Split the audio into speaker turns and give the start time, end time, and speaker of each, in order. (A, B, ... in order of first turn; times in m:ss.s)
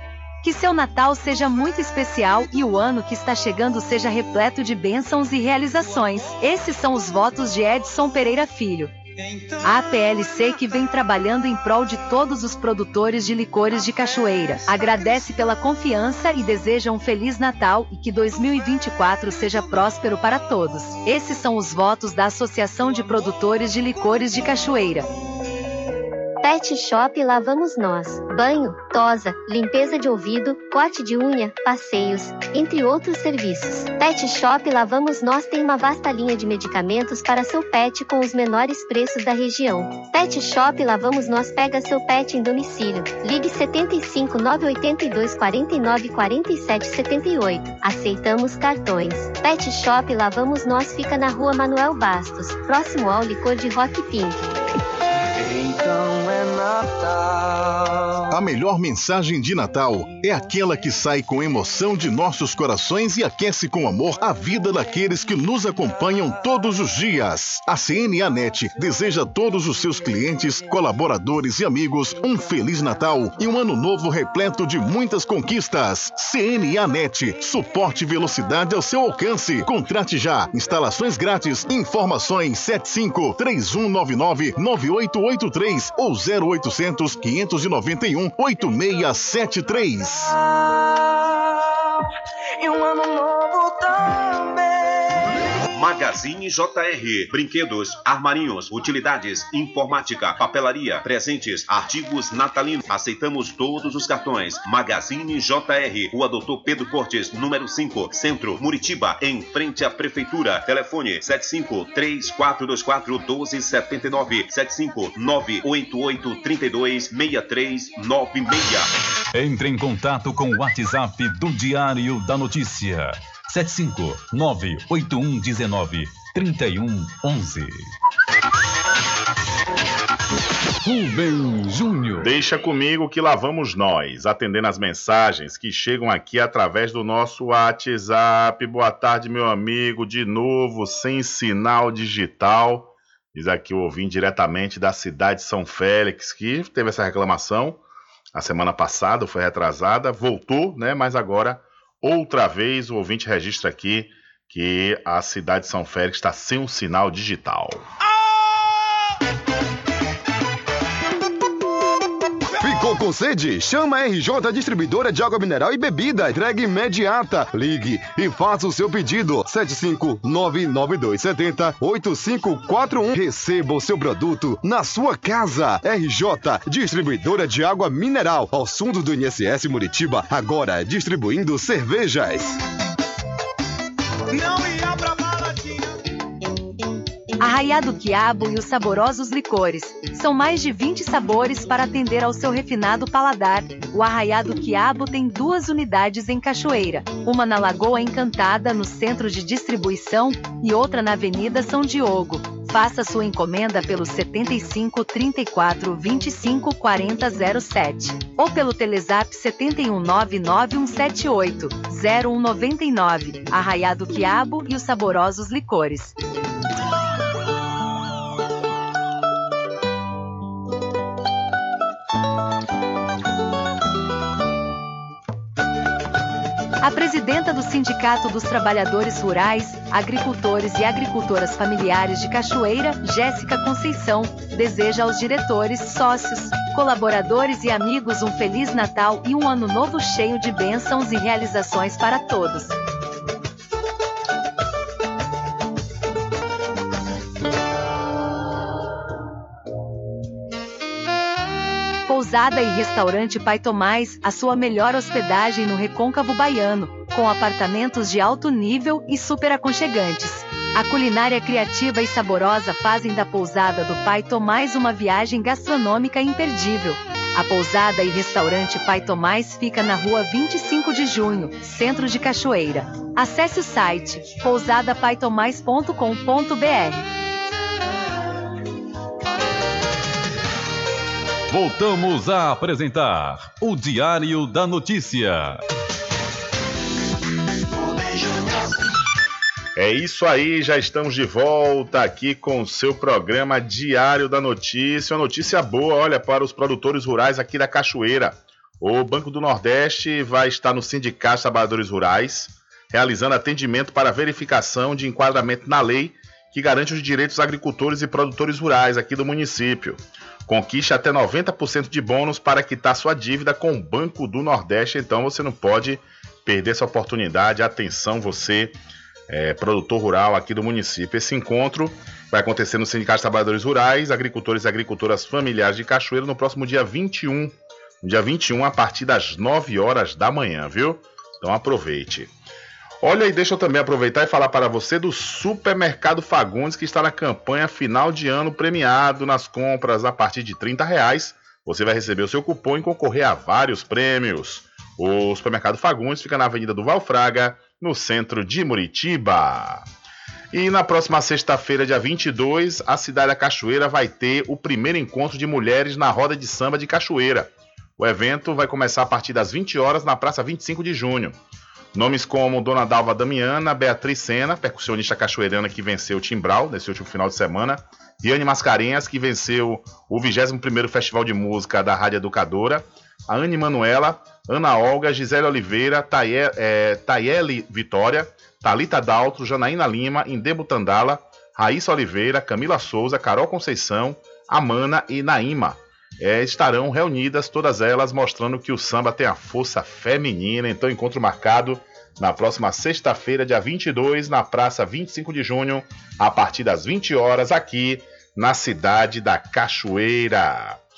0:00.4-0:08.9 A
0:09.2-0:09.6 B
0:09.6-0:25.1 A
0:26.4-0:54.4 C
0:55.4-0:58.3 B
0:58.3-1:30.4 D
1:30.6-1:31.7 B
1:32.6-1:35.2 B
1:35.8-1:58.9 E
1:59.3-2:07.9 F
2:10.8-2:12.3 F
2:12.2-2:27.8 G
2:28.4-2:37.8 G
2:42.6-3:02.6 H
3:04.3-3:05.8 B
3:07.4-3:36.2 A
3:46.8-4:02.8 A
4:12.1-4:37.0 A
4:41.5-4:45.6 F
4:49.8-5:18.8 G
5:19.3-5:32.3 G
5:33.0-5:49.9 G
5:50.5-6:01.4 G
6:01.9-6:40.8 G